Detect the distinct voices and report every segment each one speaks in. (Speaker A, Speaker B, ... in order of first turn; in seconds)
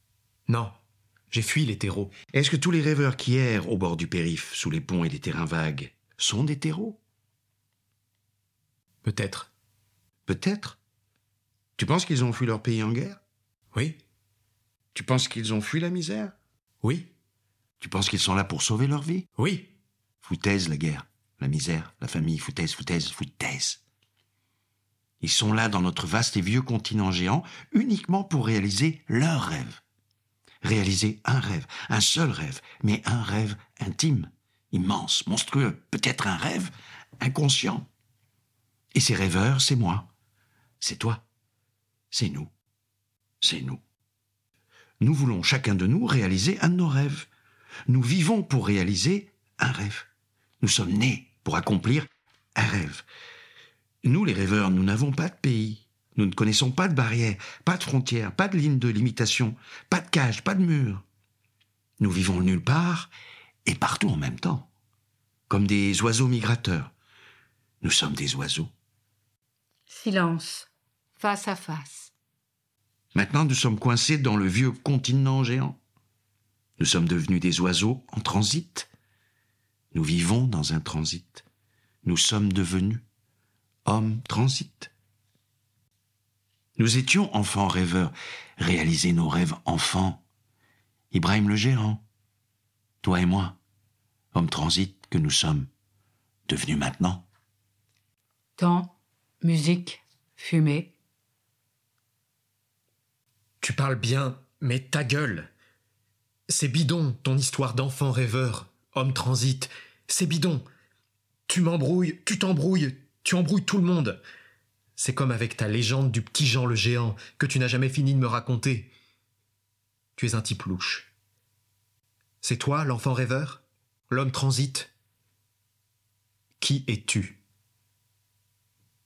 Speaker A: 0.5-0.7, 1.3-2.1, 9.0-9.5, 13.7-14.0, 16.8-17.1, 19.4-19.7, 103.6-105.5, 106.5-110.6, 111.5-114.2, 115.0-118.9, 120.2-121.1, 122.4-124.9, 126.6-127.4
Speaker B: 2.3-7.0, 10.3-10.8, 11.8-13.2, 14.9-16.3, 17.8-19.3, 20.2-23.8, 25.2-29.8, 30.6-37.9, 38.9-40.1, 40.8-41.2, 42.1-42.5, 43.4-43.8, 45.0-47.3, 47.9-50.1, 50.6-53.0, 54.0-61.0, 62.0-63.1, 63.6-64.7, 65.5-66.9, 67.8-68.7, 73.1-75.8, 76.8-78.9, 79.9-81.4, 82.0-83.0, 83.8-84.9, 86.8-90.2, 91.1-92.0, 93.0-93.6, 94.3-95.7, 96.5-97.2
Speaker C: 69.9-72.1, 98.6-100.9